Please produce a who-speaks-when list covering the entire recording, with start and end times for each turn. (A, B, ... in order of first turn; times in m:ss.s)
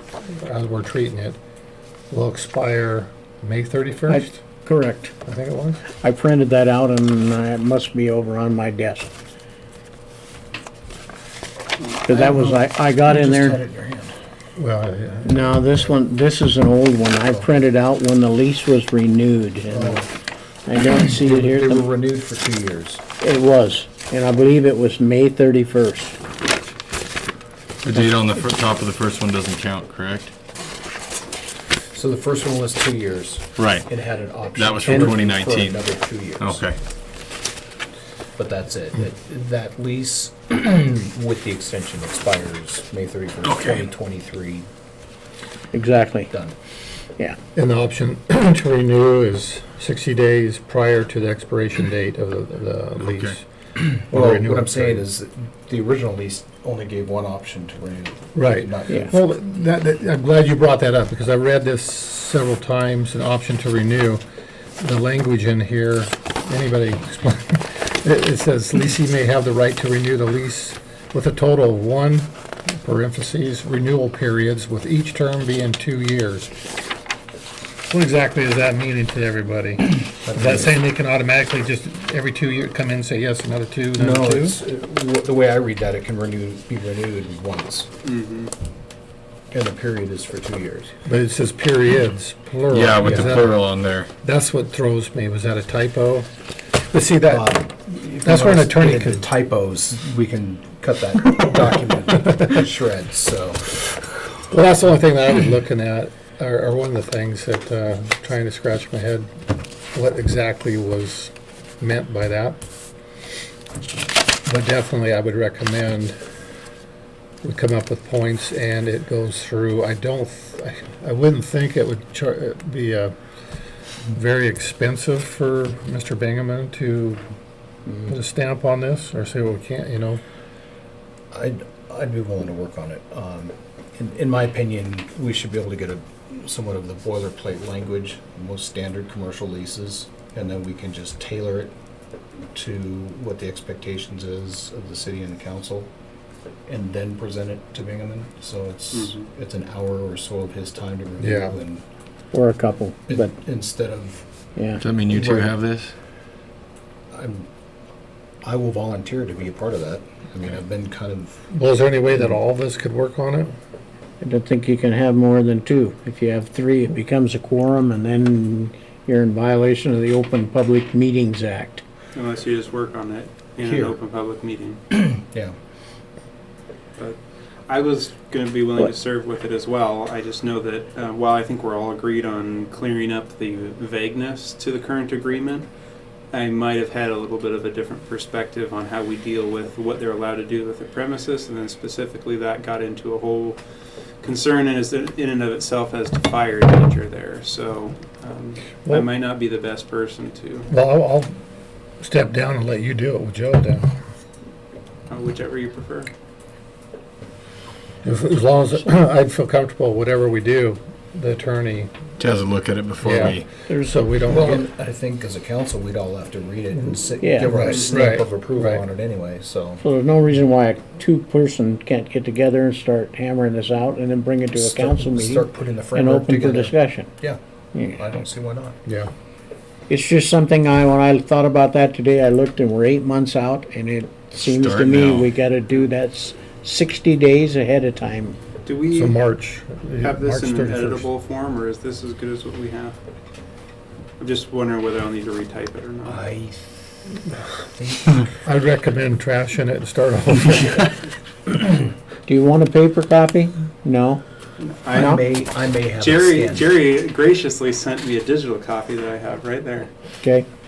0:00.3-0:01.4 A
0:02.1-0:04.4 A
0:04.1-0:05.1 B
0:05.2-0:05.8 A
0:05.9-0:09.1 B
0:12.0-0:13.6 B
0:12.1-0:14.2 C
0:14.6-0:15.9 A
0:15.2-0:20.1 B
0:19.7-0:20.1 C
0:20.6-0:21.8 B
0:21.1-0:23.0 C
0:23.2-0:26.2 B
0:27.8-0:30.3 D
0:31.9-0:36.6 C
0:33.6-0:33.9 D
0:34.5-0:35.8 D
0:34.9-0:35.1 B
0:36.4-0:36.8 D
0:38.4-0:44.7 C
0:43.5-0:43.8 D
0:45.7-0:46.3 B
0:46.3-0:46.6 C
0:47.5-0:55.0 A
0:54.1-0:59.2 C
0:58.3-1:04.2 A
1:04.8-1:16.5 A
1:17.9-1:24.6 A
1:20.2-1:20.8 C
1:24.0-1:27.9 C
1:28.0-1:28.5 E
1:29.5-1:30.9 C
1:31.0-1:33.6 A
1:32.7-1:34.1 D
1:33.0-1:33.4 C
1:34.2-1:36.3 A
1:36.9-1:39.2 A
1:37.3-1:43.9 C
1:44.5-1:49.3 A
1:49.9-1:52.6 A
1:54.4-1:56.2 A
1:57.4-2:03.1 A
2:04.1-2:07.2 A
2:08.0-2:10.2 A
2:11.3-2:21.7 C
2:22.5-2:25.9 C
2:26.7-2:31.8 C
2:28.9-2:29.2 E
2:31.2-2:31.5 A
2:32.3-2:33.3 B
2:33.1-2:34.2 C
2:34.6-2:34.9 B
2:34.8-2:35.9 D
2:35.1-2:35.5 C
2:37.1-2:37.5 C
2:38.4-2:41.4 C
2:41.5-2:43.6 A
2:44.2-2:51.8 B
2:52.1-2:54.8 E
2:53.6-2:53.9 C
2:54.9-2:55.6 C
2:57.0-3:05.7 E
3:06.3-3:13.6 E
3:14.2-3:20.7 E
3:20.7-3:21.3 A
3:22.0-3:23.9 A
3:25.1-3:26.1 E
3:28.0-3:31.9 A
3:32.2-3:33.5 D
3:33.0-3:34.6 A
3:33.2-3:34.0 B
3:34.3-3:39.8 C
3:37.2-3:37.6 B
3:37.5-3:38.8 A
3:37.6-3:37.9 E
3:39.8-3:47.1 B
3:44.5-3:48.8 C
3:48.8-3:49.1 A
3:49.9-3:58.4 B
3:58.6-3:59.2 E
3:58.9-4:01.1 A
4:00.0-4:03.0 E
4:04.2-4:06.2 E
4:06.0-4:06.7 C
4:07.6-4:08.2 C
4:08.4-4:11.1 A
4:12.2-4:14.2 B
4:14.6-4:15.2 E
4:14.9-4:16.8 C
4:14.9-4:15.2 B
4:16.0-4:19.9 E
4:20.2-4:20.5 B